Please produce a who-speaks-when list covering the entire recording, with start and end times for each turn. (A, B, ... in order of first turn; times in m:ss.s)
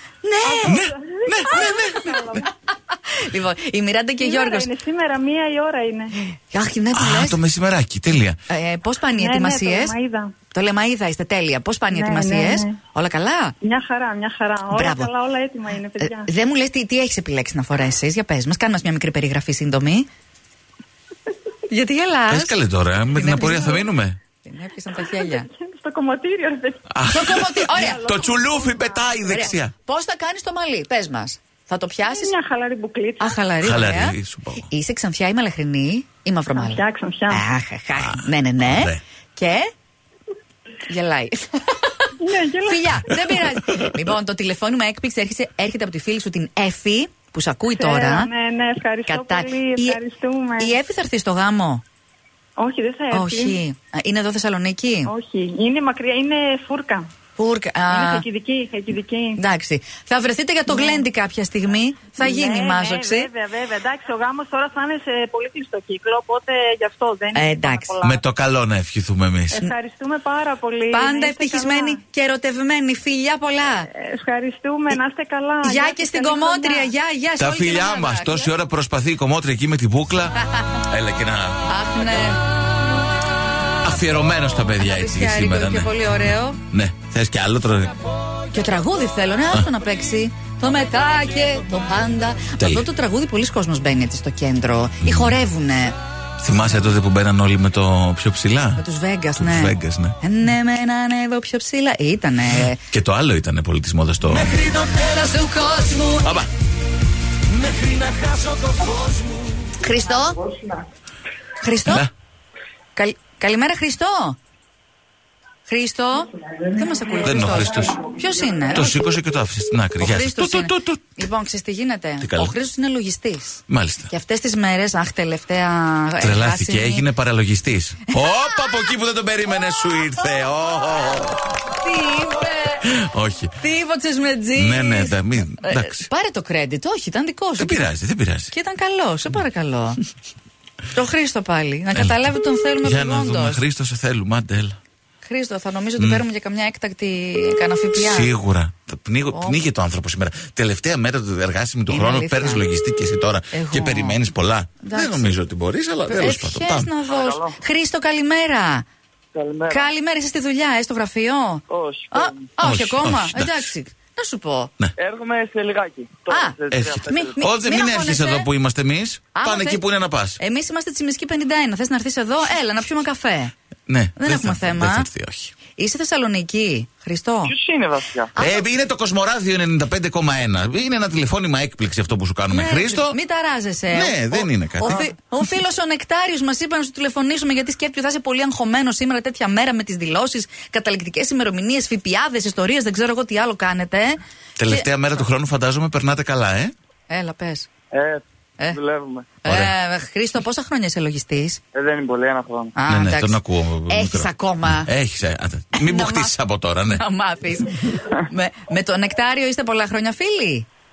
0:00.2-0:00.9 A
0:00.4-0:02.5 B
0:00.7-0:02.1 C
0:01.5-0:04.7 A
0:04.2-0:06.2 B
0:06.3-0:07.4 A
0:07.0-0:08.4 C
0:08.5-0:10.0 A
0:09.1-0:10.3 B
0:10.5-0:13.6 A
0:11.9-0:12.8 B
0:13.6-0:16.3 B
0:14.7-0:15.1 A
0:16.0-0:20.1 A
0:21.7-0:23.9 A
0:22.3-0:24.2 C
0:24.4-0:25.5 A
0:25.0-0:26.9 B
0:26.9-0:29.7 C
0:27.1-0:28.0 A
0:27.7-0:29.4 B
0:29.2-0:32.3 A
0:32.0-0:33.4 B
0:33.2-0:39.7 A
0:33.6-0:34.7 C
0:36.6-0:37.4 B
0:37.9-0:39.0 C
0:40.9-0:42.1 A
0:42.2-0:43.1 B
0:42.6-0:48.3 A
0:47.7-0:50.8 B
0:49.1-0:50.0 A
0:50.6-0:51.8 A
0:52.6-0:53.6 B
0:53.1-0:55.1 A
0:55.1-0:57.1 B
0:57.4-0:58.2 A
0:57.9-0:59.4 B
0:59.4-1:03.3 A
1:00.7-1:01.0 B
1:02.2-1:08.2 B
1:07.4-1:07.9 A
1:08.0-1:09.6 C
1:09.5-1:12.0 B
1:10.9-1:13.9 A
1:13.9-1:16.9 B
1:15.6-1:18.5 A
1:17.4-1:21.6 C
1:20.4-1:20.8 A
1:21.7-1:22.4 A
1:23.8-1:27.9 C
1:24.8-1:26.6 A
1:28.5-1:36.0 A
1:32.6-1:32.8 C
1:35.0-1:35.4 C
1:36.4-1:38.8 C
1:38.8-1:42.8 A
1:39.4-1:40.2 C
1:42.8-1:44.6 C
1:44.5-1:46.5 A
1:49.8-1:50.4 A
1:50.4-1:50.8 B
1:51.6-1:52.1 A
1:53.0-1:54.4 A
1:55.7-1:59.0 A
1:57.2-1:58.0 C
1:57.5-1:57.8 B
1:58.7-2:01.0 C
2:00.0-2:07.1 A
2:02.2-2:02.6 C
2:03.7-2:04.1 C
2:06.2-2:11.6 C
2:08.1-2:08.5 A
2:11.6-2:12.8 A
2:12.8-2:13.6 C
2:13.6-2:17.9 A
2:14.6-2:16.1 C
2:17.6-2:18.5 C
2:18.5-2:20.0 A
2:20.9-2:23.6 A
2:21.9-2:22.3 C
2:22.8-2:24.8 C
2:25.2-2:28.3 A
2:26.0-2:26.2 C
2:28.0-2:37.0 C
2:29.3-2:29.6 A
2:31.9-2:32.6 A
2:33.5-2:34.2 A
2:34.8-2:35.3 A
2:36.1-2:38.8 A
2:37.1-2:37.6 D
2:39.4-2:39.9 D
2:39.7-2:44.7 A
2:41.7-2:42.5 D
2:42.6-2:43.7 C
2:45.0-2:47.4 D
2:46.3-2:48.5 A
2:46.7-2:50.4 C
2:49.4-2:49.8 A
2:50.4-2:53.5 A
2:53.9-2:55.6 C
2:54.2-2:55.1 A
2:55.7-2:57.6 A
2:57.5-2:58.3 D
2:58.4-2:58.6 A
2:58.4-3:03.2 C
3:02.5-3:14.9 A
3:03.9-3:05.1 C
3:14.6-3:16.7 C
3:17.1-3:17.7 A
3:17.9-3:19.3 D
3:19.4-3:21.6 A
3:19.5-3:19.7 C
3:21.7-3:22.8 D
3:22.8-3:24.9 A
3:22.9-3:27.0 C
3:25.7-3:26.3 A
3:26.9-3:30.7 A